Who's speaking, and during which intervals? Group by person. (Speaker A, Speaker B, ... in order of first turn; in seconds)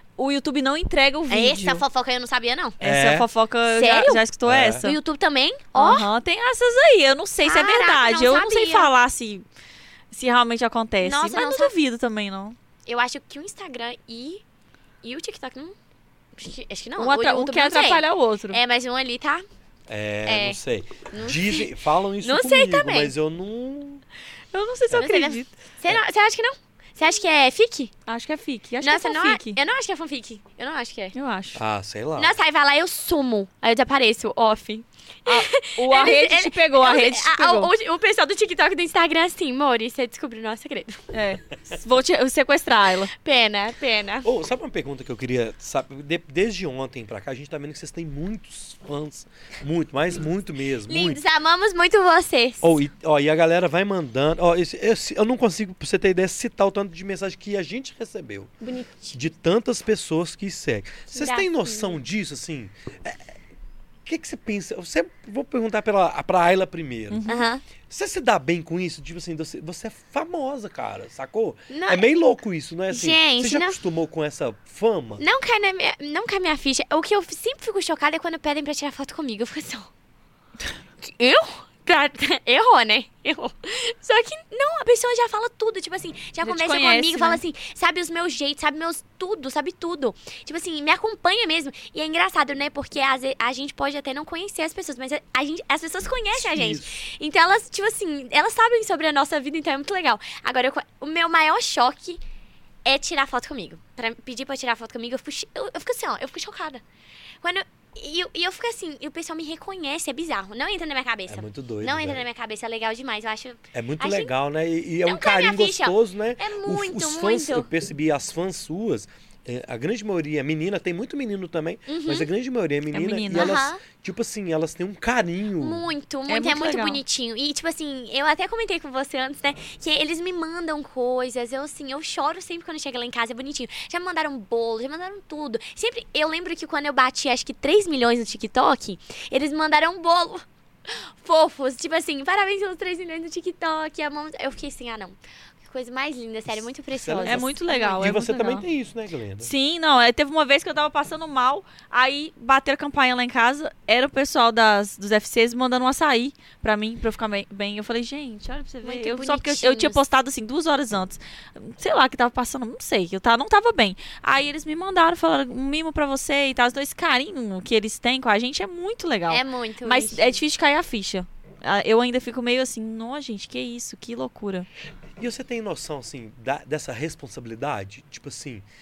Speaker A: 0.2-1.8, 2.8-5.0, 5.7-9.4, 10.1-12.6, 17.0-18.6, 24.5-25.5, 28.1-29.6, 31.1-31.6, 35.2-37.7, 41.1-43.1, 67.1-67.4, 86.4-87.4, 122.9-123.6, 126.3-127.0, 147.2-148.6, 149.4-174.7
Speaker B: 1.3-2.8, 3.6-4.2, 4.8-6.1, 7.4-8.9, 11.0-11.7, 12.8-14.4, 15.0-15.7, 16.4-19.4, 20.3-20.6, 21.1-23.1, 24.9-27.9, 28.8-31.1, 32.2-41.0, 43.1-44.3, 50.9-52.8, 58.6-59.2, 61.1-62.0, 67.2-67.6, 71.7-72.1, 72.9-73.8, 75.2-79.9, 81.0-102.2, 102.8-106.8, 107.4-114.3, 115.0-117.7, 121.9-122.3, 123.3-123.8, 125.6-148.2, 158.8-160.0, 169.3-170.4
Speaker C: 2.8-3.2, 4.5-4.9, 19.9-24.0, 31.5-32.3, 44.2-51.2, 52.6-58.5, 59.1-63.3, 64.0-67.2, 67.9-75.2, 96.3-97.0, 111.3-112.2, 113.7-125.8, 146.5-149.5, 175.2-178.6